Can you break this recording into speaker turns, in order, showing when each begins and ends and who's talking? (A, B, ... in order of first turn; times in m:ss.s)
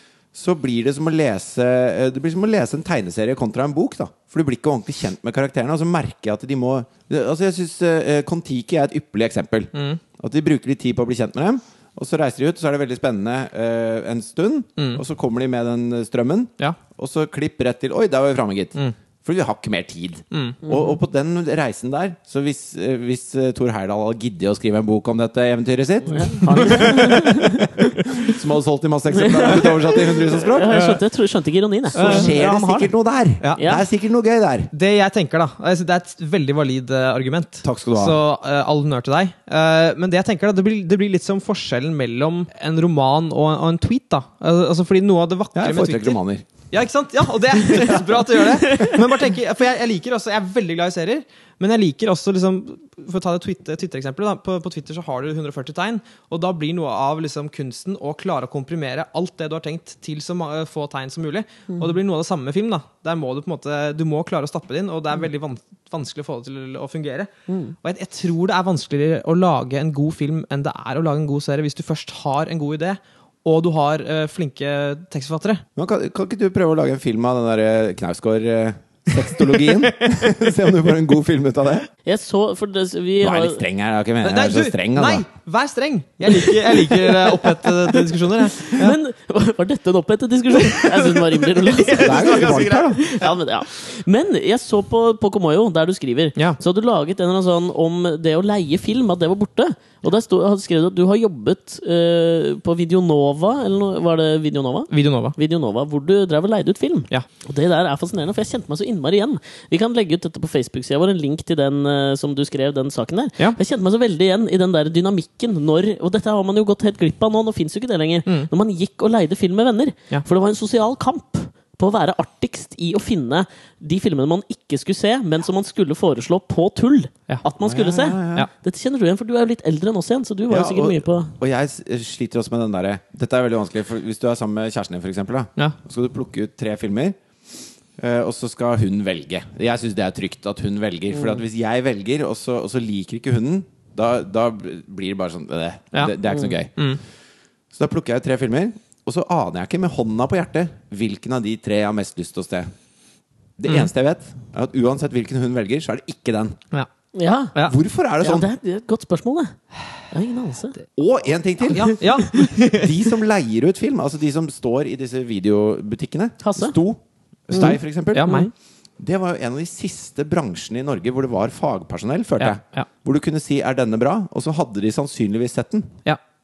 0:00.3-0:30.9 A
0:09.7-0:10.0 B
0:14.8-0:15.0 B
0:20.3-0:20.6 B
0:26.1-0:27.6 C
0:26.6-0:27.0 B
0:29.1-0:32.9 C
0:30.7-0:31.0 B
0:31.9-0:34.7 A
0:32.0-0:32.4 B
0:33.6-0:33.8 C
0:34.7-0:46.2 B
0:37.6-0:38.2 A
0:45.6-0:46.5 A
0:46.7-1:07.3 B
0:48.7-0:48.9 C
1:07.5-1:07.8 C
1:07.8-1:15.6 B
1:15.8-1:21.9 A
1:19.5-1:19.8 B
1:22.0-1:23.6 C
1:23.2-1:25.2 A
1:24.2-1:29.0 B
1:28.6-2:11.4 C
1:30.7-1:33.3 B
1:32.0-1:33.0 A
1:44.9-1:45.4 B
2:07.6-2:08.5 A
2:10.5-2:17.2 A
2:18.0-2:26.7 A
2:27.7-2:32.7 A
2:33.6-2:36.6 A
2:37.1-2:37.6 C
2:37.7-2:38.5 A
2:38.2-2:39.6 C
2:40.1-2:40.8 C
2:41.0-2:42.0 A
2:41.7-2:43.1 B
2:41.9-2:42.3 C
2:42.7-2:48.5 A
2:46.4-2:46.8 C
2:47.6-2:48.5 C
2:47.6-2:48.5 B
2:49.0-2:56.0 A
2:52.4-2:52.9 B